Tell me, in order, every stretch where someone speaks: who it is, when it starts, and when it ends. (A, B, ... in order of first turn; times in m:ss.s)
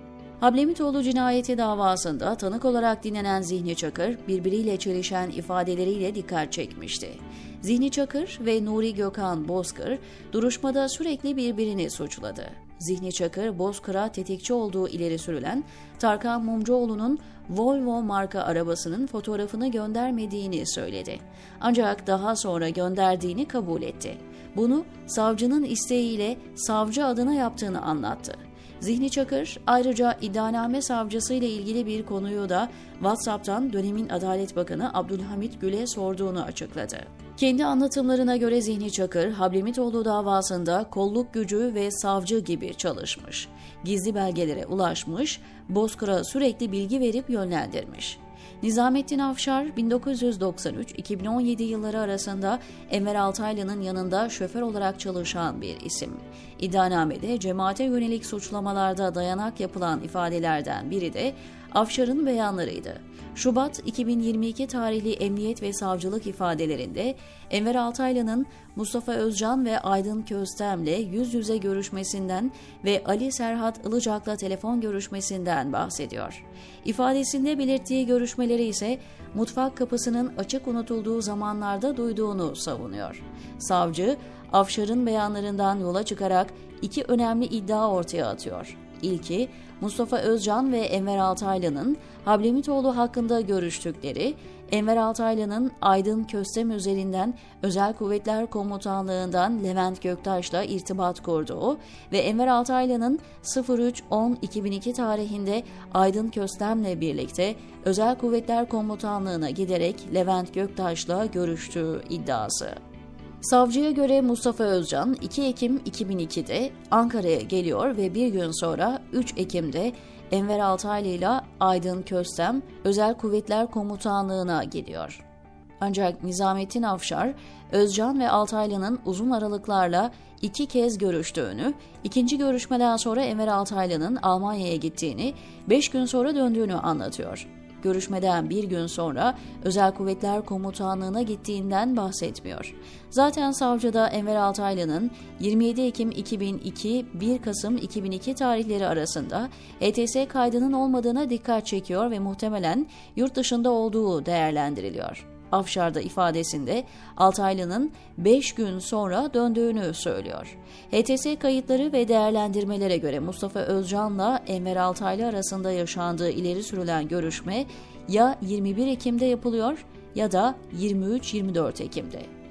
0:00.4-1:52.8 A
1:53.4-2:05.2 A
2:05.8-2:52.3 A